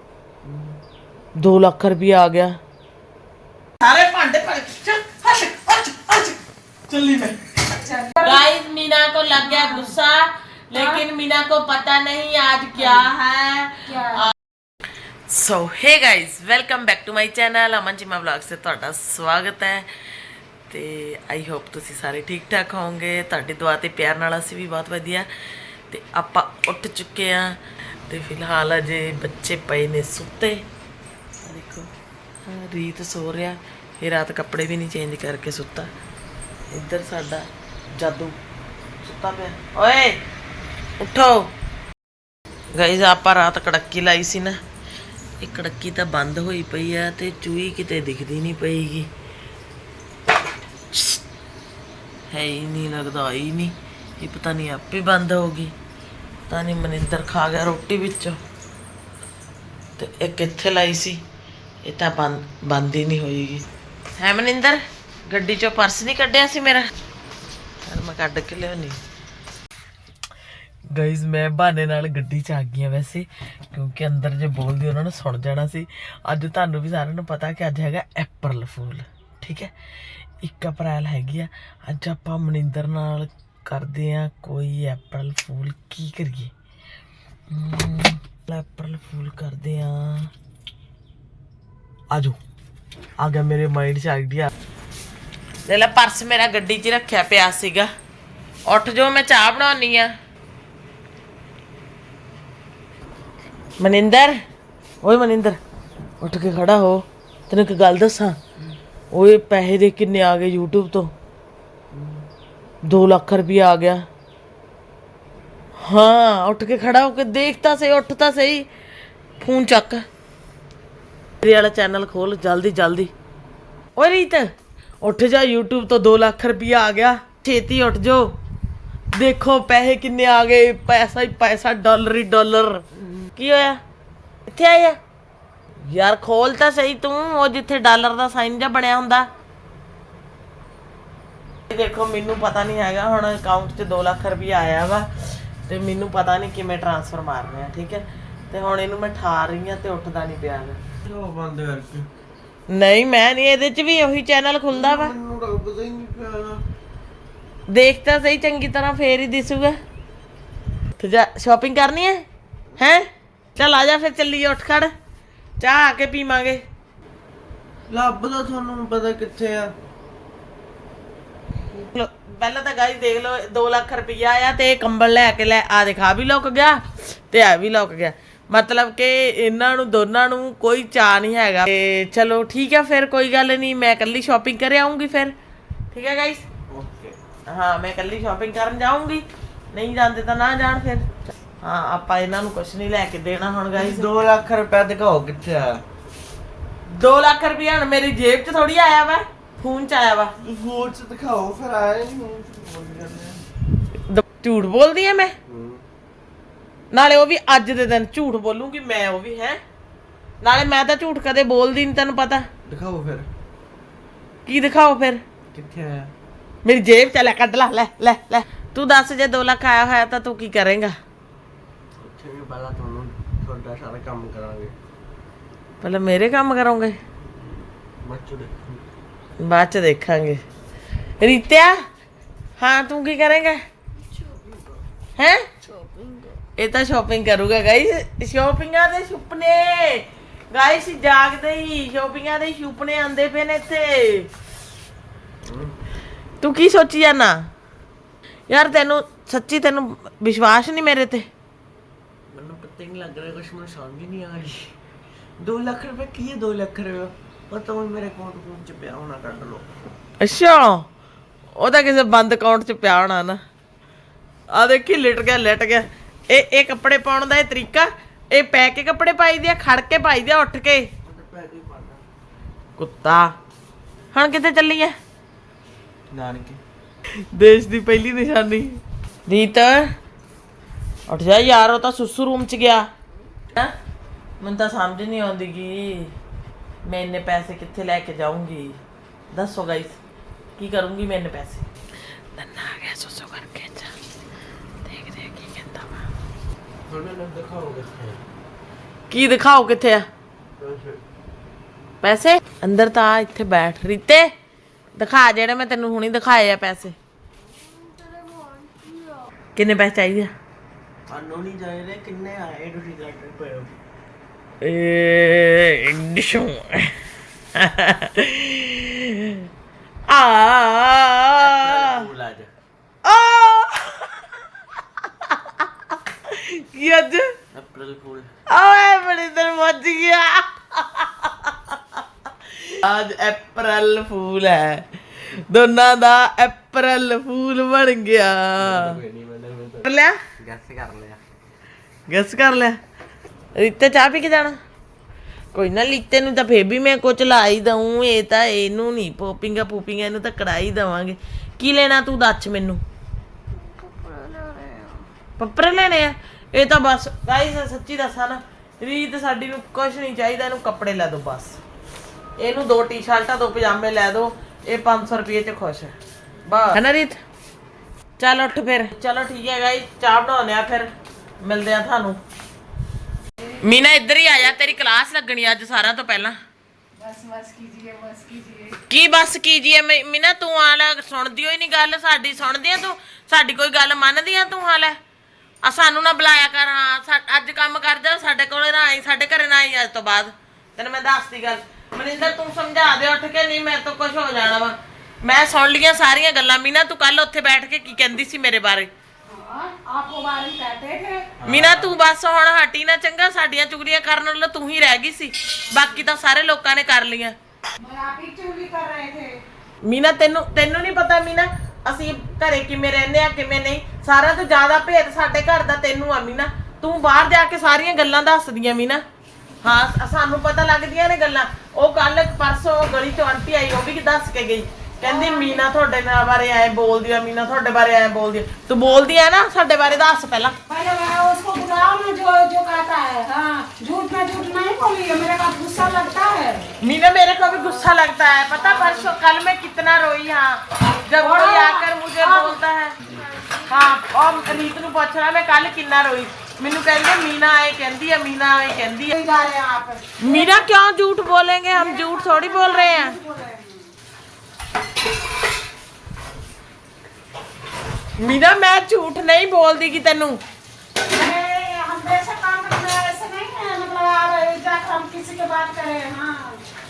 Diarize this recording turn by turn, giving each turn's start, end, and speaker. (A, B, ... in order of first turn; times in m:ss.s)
0:00.4-0:00.7 A
0:01.4-0:02.5 B
0:03.8-0:06.4 B
0:06.9-0:07.4 B
0:07.7-0:08.5 C
0:08.2-0:14.3 B
0:09.4-0:09.9 C
0:10.7-0:11.0 C
0:12.8-0:13.1 C
0:13.9-0:14.2 C
0:15.3-0:19.9 B
0:20.7-0:25.3 B
0:25.9-0:30.6 B
0:31.4-0:31.9 B
0:32.5-0:35.9 B
0:36.7-0:37.4 B
0:38.0-0:38.3 B
0:39.0-0:40.2 B
0:41.0-0:41.5 B
0:42.7-0:44.5 B
0:45.4-0:49.1 B
0:50.9-0:51.2 B
0:52.3-0:55.7 B
0:56.5-0:58.4 B
1:00.0-1:01.2 B
1:01.8-1:03.6 B
1:04.2-1:06.9 B
1:07.9-1:09.0 B
1:10.9-1:19.7 B
1:20.4-1:26.5 B
1:27.5-1:30.3 B
1:33.2-1:34.5 B
1:35.7-1:37.9 B
1:38.7-1:40.1 B
1:43.8-1:44.3 B
1:45.0-1:45.6 B
1:46.2-1:48.4 B
1:49.1-1:51.1 B
1:51.9-1:52.2 A
1:52.8-1:54.0 B
1:55.9-1:58.6 B
1:59.4-2:00.0 B
2:01.4-2:03.1 B
2:04.0-2:04.5 B
2:05.0-2:08.3 B
2:09.1-2:12.8 B
2:13.4-2:13.8 B
2:14.5-2:15.0 B
2:15.9-2:19.3 B
2:21.7-2:25.1 B
2:25.7-2:30.8 B
2:31.0-2:32.1 A
2:32.7-2:35.1 B
2:34.7-2:36.6 A
2:37.7-2:39.7 B
2:41.0-2:42.2 B
2:42.8-2:44.9 B
2:45.6-2:46.6 B
2:47.9-2:49.7 A
2:51.7-3:05.3 B
3:05.9-3:06.4 B
3:06.7-3:07.2 A
3:07.5-3:11.0 B
3:11.6-3:14.1 B
3:13.7-3:15.8 A
3:16.9-3:20.3 B
3:20.4-3:23.4 A
3:24.1-3:25.3 B
3:25.5-3:25.8 A
3:26.9-3:29.6 B
3:30.4-3:32.5 B
3:32.7-3:33.3 A
3:34.5-3:35.2 B
3:35.5-3:36.1 A
3:36.6-3:40.9 B
3:42.0-3:44.7 A
3:45.8-3:47.0 B
3:48.0-3:48.8 A
3:49.4-3:50.4 B
3:51.2-3:51.7 B
3:52.6-3:53.6 B
3:54.2-3:54.8 A
3:55.2-3:55.4 B
3:55.7-3:56.3 A
3:56.6-4:04.3 B
4:05.4-4:05.8 A
4:06.4-4:07.3 B
4:08.5-4:11.2 B
4:12.3-4:14.7 A
4:15.4-4:19.6 A
4:20.2-4:20.8 B
4:21.6-4:23.4 B
4:24.5-4:30.9 B
4:31.0-4:32.0 A
4:32.8-4:33.3 B
4:34.1-4:34.9 B
4:36.1-4:36.6 A
4:37.3-4:39.9 B
4:41.1-4:42.9 B
4:44.4-4:46.1 B
4:46.8-4:48.8 B
4:49.3-4:50.0 B
4:50.6-4:51.6 B
4:52.3-4:53.9 B
4:54.8-4:56.0 B
4:56.9-4:58.2 A
4:59.1-5:00.0 B
5:00.6-5:01.0 A
5:02.0-5:04.3 B
5:05.0-5:06.9 B
5:07.9-5:08.9 A
5:09.6-5:10.3 B
5:11.1-5:13.7 A
5:14.6-5:16.9 B
5:17.6-5:19.4 B
5:20.1-5:22.0 B
5:21.4-5:22.5 A
5:23.0-5:24.2 B
5:25.2-5:25.6 B
5:26.3-5:27.3 B
5:27.5-5:28.3 A
5:28.5-5:31.8 B
5:32.7-5:34.8 B
5:35.5-5:39.0 B
5:38.6-5:39.8 A
5:39.8-5:40.2 B
5:40.4-5:41.2 A
5:42.1-5:42.8 B
5:43.6-5:44.6 B
5:45.5-5:52.8 B
5:55.4-6:01.6 B
6:02.4-6:05.9 B
6:06.4-6:07.2 B
6:08.2-6:10.9 B
6:11.4-6:12.2 B
6:13.6-6:16.4 B
6:17.0-6:18.8 C
6:18.9-6:25.0 B
6:25.6-6:38.9 B
6:39.3-6:41.3 C
6:41.4-6:41.9 A
6:41.4-6:47.3 B
6:47.8-6:49.4 C
6:49.8-6:59.0 B
6:59.6-7:10.5 B
7:05.0-7:05.6 C
7:10.6-7:16.7 C
7:16.8-7:23.0 B
7:17.5-7:17.9 C
7:18.5-7:19.1 C
7:21.2-7:24.0 C
7:23.7-7:29.1 B
7:29.1-7:30.6 C
7:30.2-7:33.1 B
7:31.7-7:33.9 C
7:38.2-7:40.4 B
7:41.1-7:46.6 C